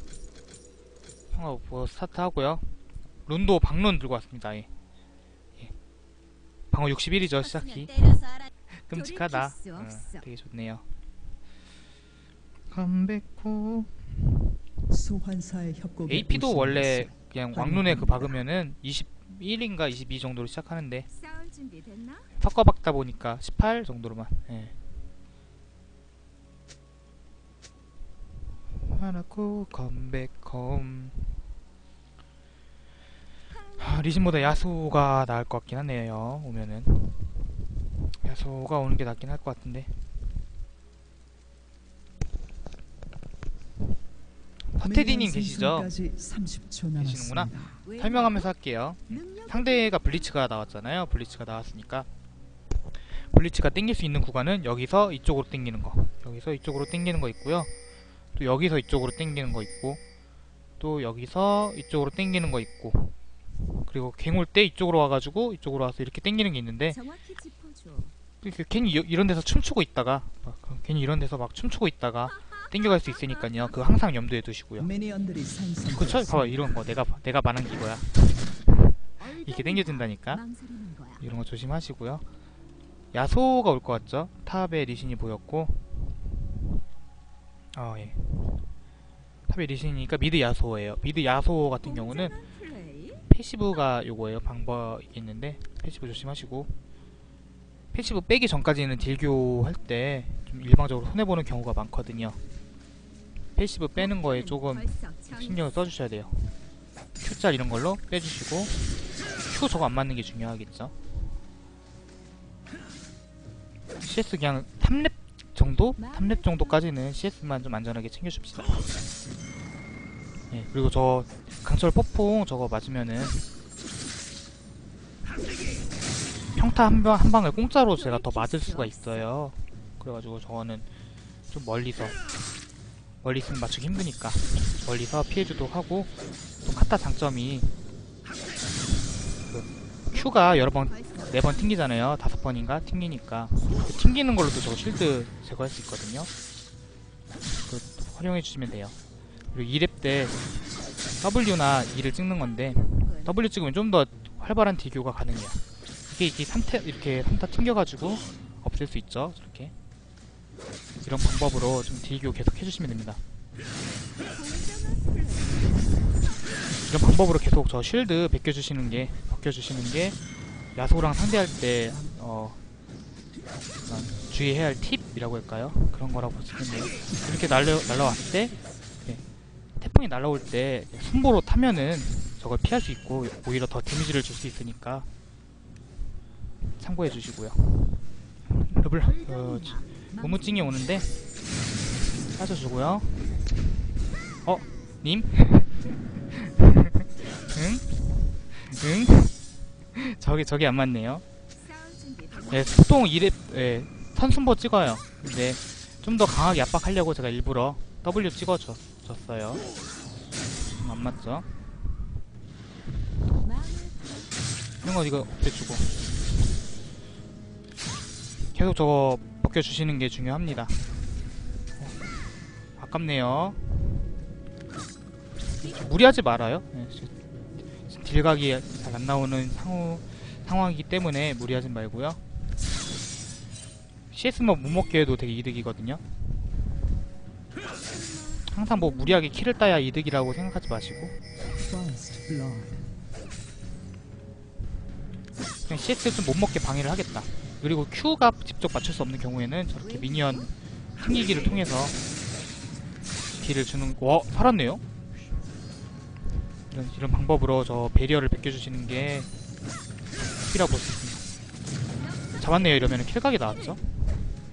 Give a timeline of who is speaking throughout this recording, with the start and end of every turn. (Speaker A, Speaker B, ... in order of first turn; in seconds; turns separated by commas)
Speaker A: 1.3-2.8, Speaker A: 3.3-4.7, Speaker A: 6.7-10.9, Speaker B: 7.5-10.3, Speaker A: 12.7-14.0, Speaker C: 14.9-18.4, Speaker A: 16.1-21.1, Speaker B: 21.1-22.3, Speaker A: 22.4-24.8, Speaker A: 28.8-31.4, Speaker B: 33.5-34.8, Speaker A: 33.8-40.3, Speaker A: 44.7-45.9, Speaker C: 44.8-47.8, Speaker A: 47.0-52.1, Speaker B: 47.8-48.5, Speaker B: 49.1-50.3, Speaker A: 53.0-57.7, Speaker A: 58.4-60.0, Speaker A: 60.8-63.2, Speaker A: 63.8-67.0, Speaker B: 66.9-68.1, Speaker A: 68.4-74.9, Speaker B: 72.4-73.9, Speaker C: 74.8-76.9, Speaker A: 75.9-80.4, Speaker B: 79.2-81.2, Speaker A: 81.2-82.3, Speaker A: 83.1-86.3, Speaker A: 87.7-88.7, Speaker A: 89.5-92.4, Speaker B: 91.8-93.3, Speaker A: 93.3-96.8, Speaker A: 97.9-102.4, Speaker A: 103.6-106.6, Speaker B: 104.0-106.0, Speaker A: 107.2-111.0, Speaker A: 114.0-119.1, Speaker B: 116.0-116.9, Speaker A: 120.5-123.5, Speaker A: 126.6-130.9, Speaker B: 127.7-129.3, Speaker A: 131.5-132.2, Speaker A: 133.2-137.8, Speaker A: 139.4-146.3, Speaker B: 140.1-142.0, Speaker A: 147.5-149.0, Speaker A: 149.5-150.5, Speaker A: 151.2-155.6, Speaker B: 152.2-153.4, Speaker A: 156.1-159.7, Speaker A: 161.0-163.2, Speaker B: 164.3-166.4, Speaker A: 166.9-170.2, Speaker A: 170.8-172.6, Speaker A: 173.8-179.2, Speaker A: 179.8-185.1, Speaker A: 186.8-191.2, Speaker B: 189.0-190.9, Speaker A: 192.3-193.6, Speaker A: 194.4-199.4, Speaker A: 199.9-201.2, Speaker B: 201.6-202.9, Speaker A: 202.5-209.6, Speaker A: 210.7-211.7, Speaker B: 213.4-214.3, Speaker A: 214.8-216.6, Speaker A: 218.5-221.2, Speaker A: 221.8-222.1, Speaker A: 222.8-224.1, Speaker A: 225.6-227.2, Speaker B: 225.6-226.2, Speaker A: 227.9-232.3, Speaker A: 234.1-236.7, Speaker B: 237.8-239.6, Speaker A: 238.5-241.2, Speaker C: 241.6-243.0, Speaker A: 245.7-252.0, Speaker B: 249.8-250.5, Speaker A: 253.4-254.8, Speaker A: 256.7-259.3, Speaker A: 260.2-261.3, Speaker B: 262.0-263.8, Speaker A: 262.4-264.3